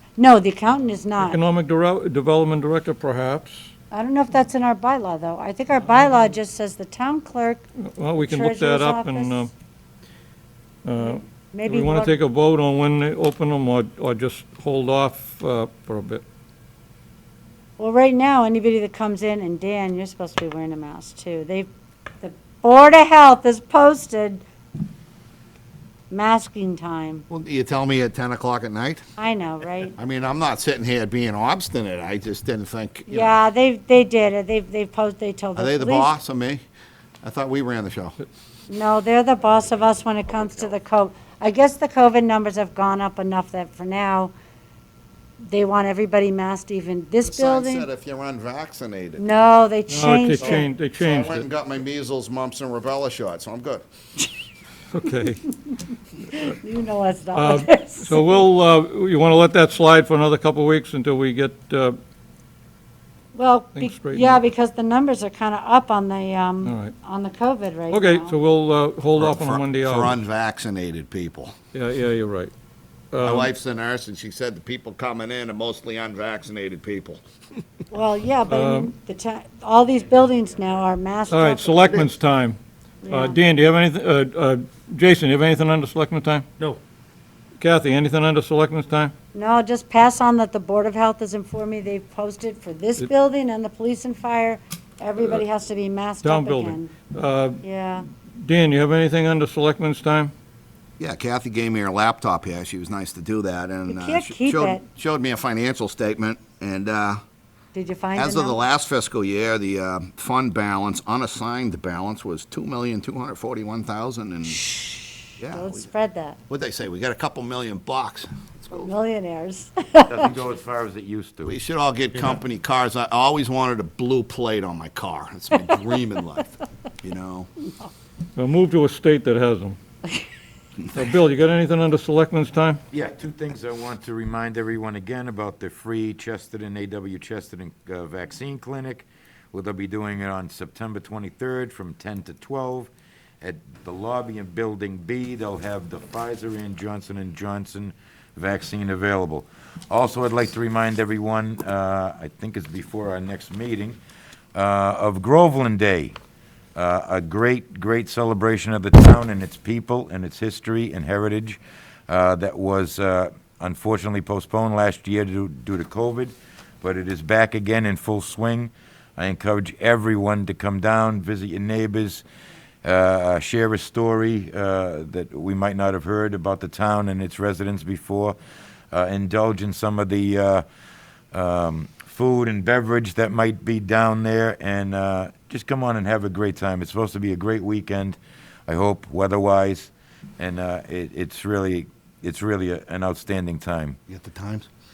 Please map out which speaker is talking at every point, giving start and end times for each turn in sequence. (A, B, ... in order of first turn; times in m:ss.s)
0:00.2-0:01.4 A
0:01.2-0:03.7 B
0:03.9-0:07.6 A
0:07.9-0:09.5 B
0:08.2-0:09.5 A
0:10.8-0:16.2 B
0:11.0-0:12.2 A
0:17.8-0:21.7 A
0:22.2-0:24.4 A
0:26.1-0:27.2 A
0:27.3-0:29.0 C
0:29.2-0:30.0 A
0:30.0-0:33.4 C
0:33.1-0:36.1 A
0:35.6-0:36.6 C
0:37.2-0:38.2 C
0:38.7-0:44.3 A
0:45.4-0:47.9 A
0:47.2-0:49.2 C
0:49.2-0:50.7 A
0:49.9-0:51.5 B
0:50.4-0:53.8 C
0:54.9-0:55.5 B
0:56.3-0:58.3 A
0:57.3-1:02.0 B
1:03.3-1:08.4 A
1:03.7-1:04.4 B
1:06.6-1:06.9 B
1:07.9-1:10.2 B
1:09.2-1:11.5 C
1:11.7-1:12.5 B
1:13.1-1:13.5 B
1:13.2-1:17.2 C
1:17.9-1:22.0 A
1:18.5-1:18.9 B
1:21.3-1:26.5 B
1:23.0-1:23.4 A
1:27.6-1:29.1 B
1:29.3-1:36.9 A
1:36.2-1:37.6 B
1:37.6-1:38.0 A
1:38.2-1:40.3 B
1:41.0-1:47.2 C
1:43.9-1:44.8 A
1:47.7-1:48.6 A
1:48.2-1:54.6 C
1:54.7-1:56.4 A
1:55.4-1:55.8 C
1:56.5-1:58.9 C
1:58.7-2:00.3 A
2:00.1-2:01.5 D
2:01.4-2:07.5 C
2:08.4-2:09.8 B
2:10.9-2:12.8 B
2:12.9-2:34.0 D
2:34.5-2:36.2 D
2:36.8-2:52.2 D
2:52.8-2:58.4 D
2:58.9-3:00.6 D
3:01.3-3:14.0 D
3:14.1-3:14.7 C